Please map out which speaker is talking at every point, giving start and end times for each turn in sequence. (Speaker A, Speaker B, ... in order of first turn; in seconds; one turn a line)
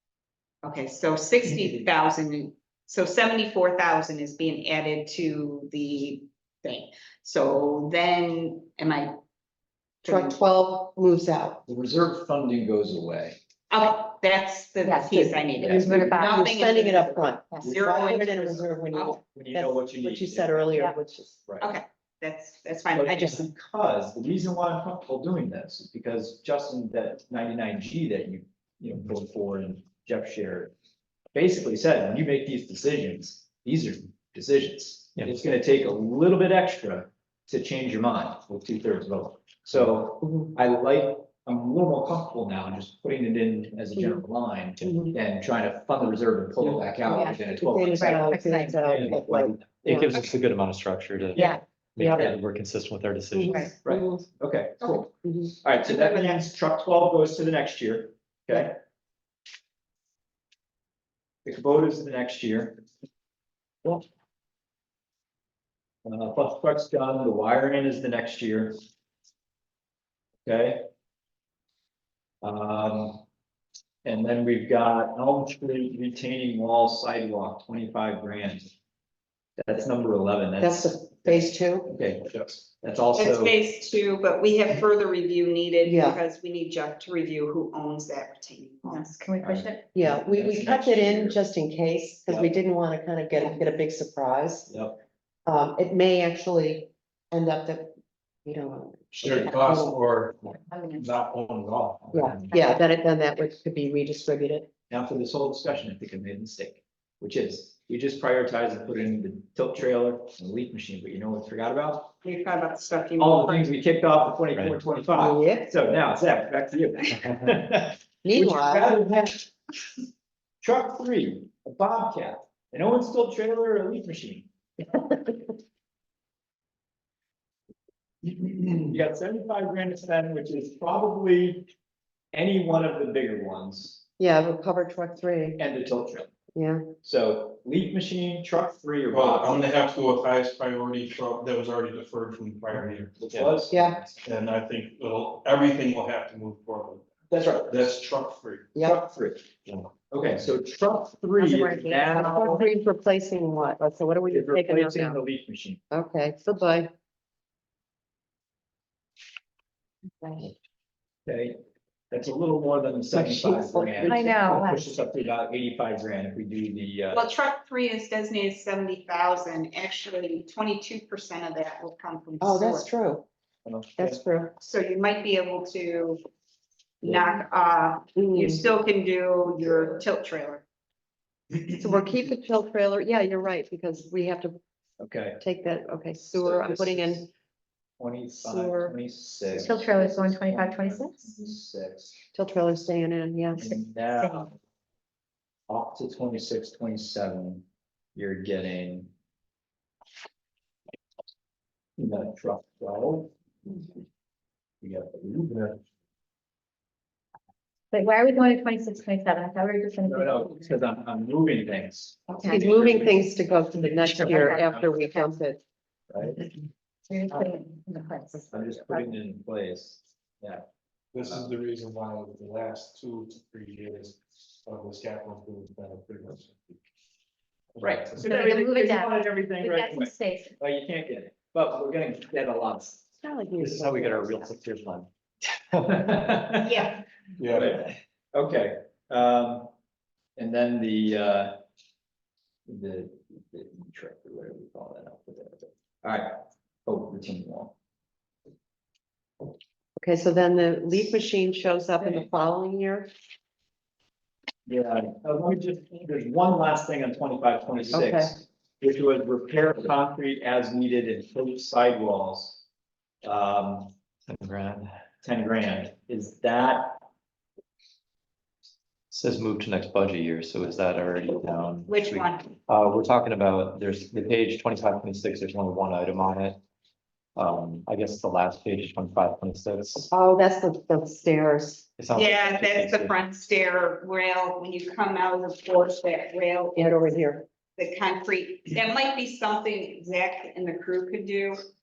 Speaker A: 0.6-9.2
Speaker A: 10.0-10.4
Speaker B: 10.1-11.6
Speaker C: 11.7-13.4
Speaker A: 13.7-19.2
Speaker D: 14.8-16.4
Speaker C: 15.6-15.9
Speaker B: 15.8-21.4
Speaker C: 19.4-20.7
Speaker C: 21.5-21.7
Speaker A: 21.6-23.4
Speaker C: 22.9-30.7
Speaker C: 31.3-50.1
Speaker B: 44.0-44.2
Speaker B: 44.8-45.2
Speaker D: 47.1-49.2
Speaker B: 47.6-50.1
Speaker E: 49.9-53.6
Speaker B: 52.0-52.3
Speaker B: 53.4-54.2
Speaker D: 53.5-53.7
Speaker C: 53.8-58.8
Speaker B: 55.2-55.5
Speaker A: 55.9-56.4
Speaker C: 61.5-62.8
Speaker C: 66.0-68.8
Speaker C: 70.5-70.9
Speaker C: 72.4-73.2
Speaker C: 74.0-78.7
Speaker C: 79.6-83.6
Speaker B: 80.6-81.9
Speaker A: 83.2-89.2
Speaker B: 85.8-86.2
Speaker D: 88.9-89.8
Speaker C: 89.4-91.4
Speaker B: 89.9-94.7
Speaker C: 94.7-95.0
Speaker B: 95.5-97.9
Speaker B: 98.5-100.0
Speaker F: 99.2-102.4
Speaker C: 99.2-99.5
Speaker D: 100.7-101.2
Speaker B: 102.1-104.7
Speaker D: 102.5-102.8
Speaker C: 104.9-112.1
Speaker A: 112.2-113.7
Speaker C: 113.2-119.5
Speaker B: 115.2-115.7
Speaker B: 118.2-119.0
Speaker C: 120.6-124.5
Speaker C: 128.3-131.7
Speaker C: 132.3-134.0
Speaker B: 134.2-135.6
Speaker C: 135.6-136.3
Speaker B: 136.6-136.9
Speaker C: 137.0-139.8
Speaker F: 139.1-143.7
Speaker C: 143.2-144.2
Speaker B: 143.7-144.0
Speaker F: 144.2-147.1
Speaker C: 147.3-147.9
Speaker F: 147.7-148.7
Speaker B: 148.7-149.0
Speaker C: 148.8-149.5
Speaker C: 150.1-152.7
Speaker D: 151.4-152.3
Speaker B: 152.2-155.2
Speaker C: 154.3-155.8
Speaker B: 155.9-156.9
Speaker B: 160.2-160.5
Speaker C: 161.3-161.6
Speaker C: 162.1-167.3
Speaker B: 163.1-164.4
Speaker D: 164.0-164.9
Speaker A: 167.1-172.9
Speaker B: 172.4-173.3
Speaker C: 173.7-174.2
Speaker B: 174.0-174.5
Speaker A: 174.6-176.2
Speaker A: 177.0-180.7
Speaker B: 178.2-178.6
Speaker C: 179.6-180.0
Speaker B: 181.8-184.6
Speaker C: 185.0-185.4
Speaker B: 185.4-187.3
Speaker C: 186.3-187.3
Speaker C: 188.0-192.2
Speaker B: 188.4-188.9
Speaker D: 189.6-191.3
Speaker B: 192.3-193.6
Speaker C: 193.6-194.5
Speaker D: 193.7-194.4
Speaker C: 195.7-197.6
Speaker C: 198.2-199.1
Speaker C: 202.0-203.8
Speaker C: 204.8-205.6
Speaker F: 205.5-205.8
Speaker D: 207.9-210.8
Speaker C: 210.0-213.2
Speaker D: 212.4-212.7
Speaker B: 212.4-215.6
Speaker D: 214.0-215.3
Speaker C: 216.1-216.4
Speaker D: 217.1-218.5
Speaker C: 218.5-220.7
Speaker F: 221.1-226.8
Speaker C: 221.2-221.6
Speaker C: 227.8-233.1
Speaker D: 228.2-230.6
Speaker B: 233.2-234.6
Speaker E: 233.6-235.1
Speaker C: 235.7-239.7
Speaker A: 236.6-237.0
Speaker F: 237.4-237.8
Speaker C: 240.4-241.6
Speaker C: 242.7-247.7
Speaker B: 250.0-253.1
Speaker C: 254.7-262.6
Speaker B: 257.9-258.3
Speaker C: 263.2-263.9
Speaker E: 264.3-264.9
Speaker C: 265.2-267.1
Speaker E: 269.1-276.6
Speaker A: 271.9-272.5
Speaker E: 277.4-280.1
Speaker B: 280.1-281.9
Speaker E: 282.0-283.1
Speaker A: 282.1-287.1
Speaker B: 286.8-287.4
Speaker A: 287.8-291.6